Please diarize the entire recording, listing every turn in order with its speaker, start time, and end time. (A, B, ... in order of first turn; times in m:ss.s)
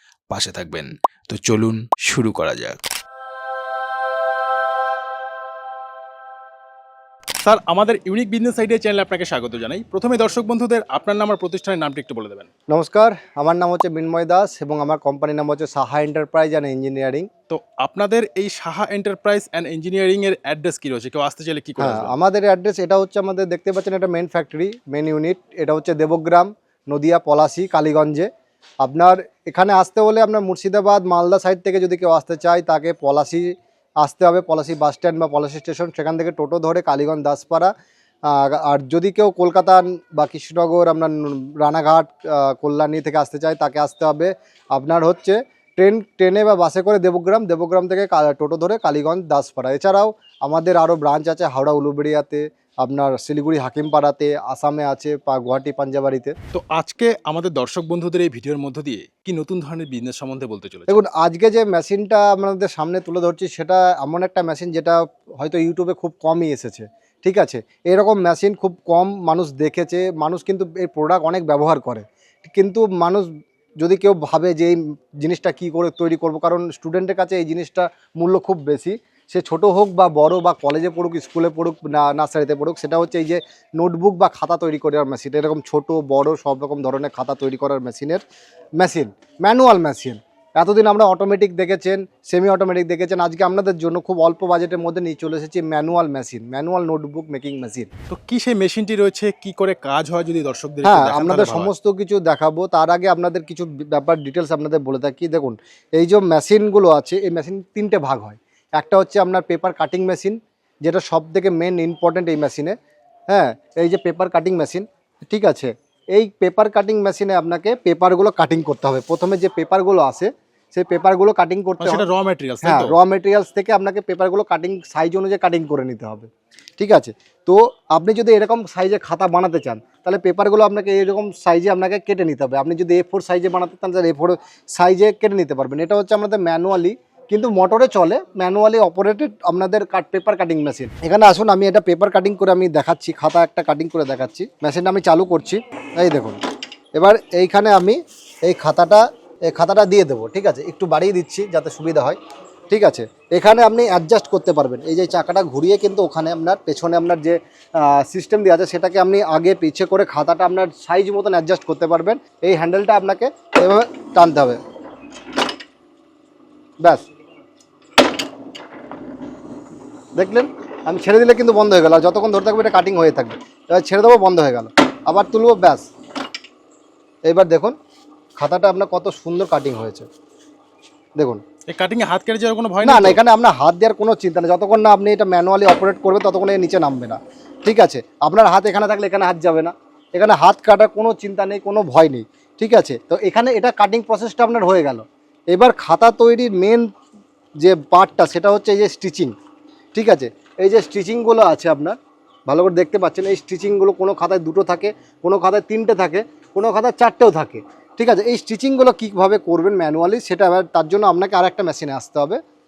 0:00.3-0:02.8 A
0:07.4-0:12.5 B
0:12.7-0:17.3 C
0:17.5-0:22.1 B
0:21.8-0:28.3 C
0:28.8-0:37.7 C
0:38.3-0:56.3 C
0:56.5-1:01.0 B
1:00.9-1:13.3 C
1:13.8-1:28.2 C
1:28.8-1:37.9 C
1:38.1-1:41.7 B
1:40.8-1:52.7 C
1:53.3-2:02.0 C
2:01.8-2:03.0 B
2:02.6-2:26.4 C
2:26.9-2:32.2 C
2:32.7-2:44.6 C
2:50.2-2:55.9 C
2:57.2-2:57.7 C
2:58.4-3:00.0 C
3:01.2-3:01.4 C
3:01.7-3:03.2 B
3:02.8-3:16.8 C
3:17.6-3:19.3 C
3:19.9-3:22.0 C
3:22.5-3:32.4 C